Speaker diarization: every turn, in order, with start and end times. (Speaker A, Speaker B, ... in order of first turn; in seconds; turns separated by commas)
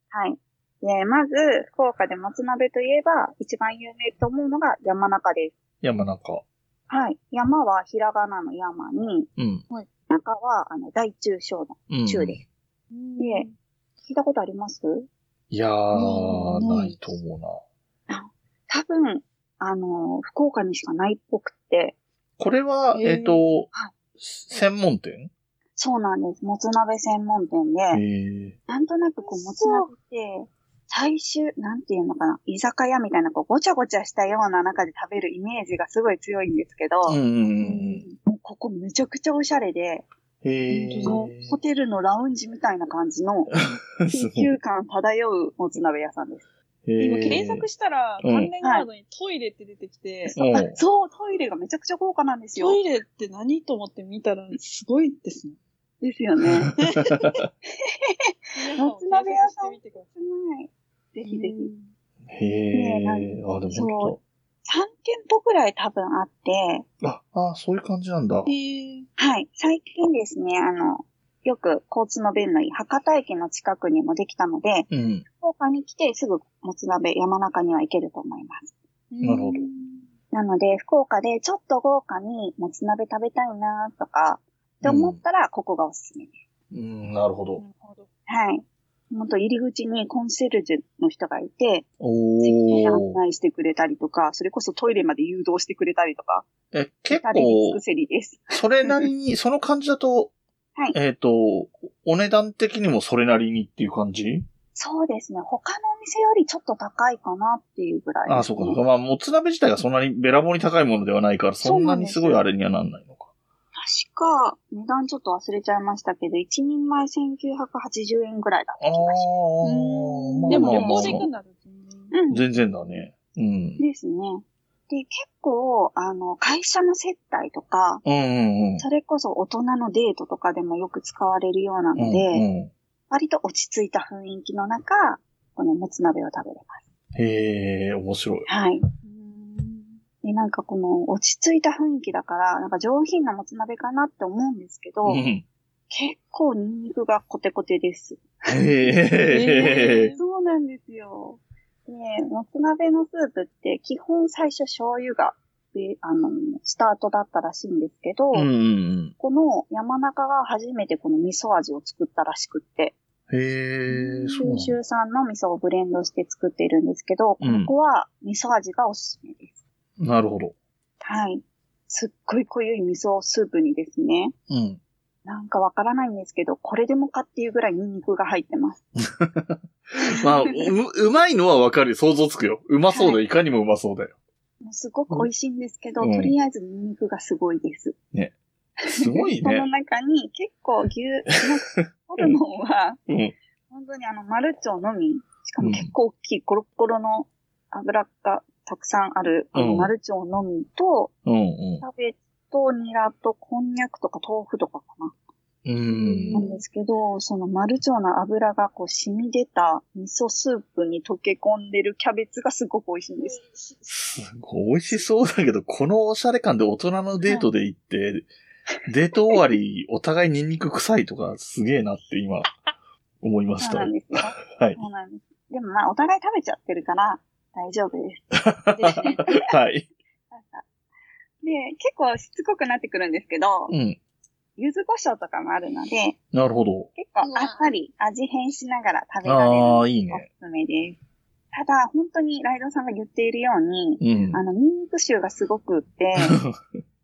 Speaker A: 0.1-5.5, Speaker B: 5.8-6.4, Speaker A: 6.9-9.3, Speaker B: 9.4-9.6, Speaker A: 10.1-12.4, Speaker B: 11.9-12.4, Speaker C: 12.9-13.6, Speaker A: 13.2-13.5, Speaker A: 14.0-15.1, Speaker B: 15.5-17.6, Speaker C: 15.9-17.0, Speaker A: 18.1-22.0, Speaker B: 22.4-25.3, Speaker C: 22.9-23.5, Speaker A: 25.8-28.0, Speaker B: 27.9-28.6, Speaker A: 28.7-37.2, Speaker C: 29.2-29.9, Speaker B: 37.1-38.0, Speaker C: 37.6-38.1, Speaker A: 38.2-40.1, Speaker B: 40.4-41.5, Speaker C: 40.7-41.3, Speaker A: 41.0-43.5, Speaker B: 43.5-44.5, Speaker A: 44.1-46.5, Speaker B: 46.9-47.7, Speaker C: 47.0-50.4, Speaker B: 48.2-48.5, Speaker A: 50.3-52.8, Speaker B: 50.4-50.8, Speaker C: 52.6-55.6, Speaker A: 56.0-56.7, Speaker B: 56.7-57.5, Speaker C: 56.8-57.3, Speaker A: 57.9-58.2, Speaker C: 58.6-60.1, Speaker A: 58.8-61.7, Speaker C: 61.3-61.9, Speaker B: 62.3-64.2, Speaker A: 62.7-66.9, Speaker B: 67.0-68.5, Speaker C: 68.5-69.1, Speaker A: 69.2-78.7, Speaker B: 74.9-75.2, Speaker C: 79.1-80.0, Speaker B: 79.2-79.7, Speaker A: 80.3-86.3, Speaker B: 84.8-85.2, Speaker B: 86.7-87.6, Speaker C: 87.6-88.1, Speaker A: 88.3-91.8, Speaker B: 92.0-93.2, Speaker A: 92.4-96.5, Speaker B: 96.7-97.8, Speaker A: 97.1-99.0, Speaker B: 98.5-100.3, Speaker B: 100.9-104.5, Speaker A: 104.8-108.8, Speaker B: 108.3-113.3, Speaker A: 111.6-112.4, Speaker A: 113.8-119.3, Speaker B: 118.8-121.3, Speaker C: 119.6-122.1, Speaker A: 120.5-121.3, Speaker A: 122.1-122.5, Speaker B: 122.3-123.8, Speaker A: 123.8-128.0, Speaker B: 128.1-128.8, Speaker A: 128.8-132.4, Speaker B: 132.0-132.7, Speaker A: 133.1-136.8, Speaker B: 137.2-138.5, Speaker A: 138.5-138.8, Speaker C: 139.0-140.0, Speaker A: 140.2-145.2, Speaker B: 145.1-145.4, Speaker A: 145.9-148.7, Speaker B: 148.5-150.2, Speaker C: 149.3-150.2, Speaker A: 149.6-158.5, Speaker B: 158.3-159.1, Speaker A: 159.2-163.0, Speaker B: 163.3-164.8, Speaker A: 163.9-169.5, Speaker B: 167.4-167.7, Speaker B: 170.0-170.6, Speaker A: 171.0-174.3, Speaker B: 174.5-174.8, Speaker A: 175.2-178.8, Speaker B: 179.0-184.1, Speaker A: 182.9-183.2, Speaker A: 184.6-187.9, Speaker B: 186.0-186.3, Speaker B: 188.9-189.7, Speaker A: 188.9-193.0, Speaker B: 191.8-192.4, Speaker B: 193.1-193.3, Speaker A: 193.7-201.1, Speaker B: 195.6-195.9, Speaker B: 199.5-199.9, Speaker B: 201.2-201.8, Speaker A: 201.8-205.1, Speaker B: 205.7-206.4, Speaker C: 205.9-206.6, Speaker A: 206.3-213.4, Speaker C: 213.2-214.1, Speaker B: 213.9-218.3, Speaker B: 218.9-222.5, Speaker B: 223.2-224.8, Speaker A: 223.6-229.2, Speaker B: 228.4-229.9, Speaker C: 228.7-229.2, Speaker A: 230.3-230.7, Speaker A: 231.4-233.7, Speaker B: 233.7-234.0, Speaker A: 234.6-236.2, Speaker B: 236.3-236.9, Speaker A: 237.0-241.0, Speaker C: 237.2-237.7, Speaker B: 239.2-240.3, Speaker A: 241.5-246.4, Speaker B: 244.0-244.4, Speaker B: 246.3-246.5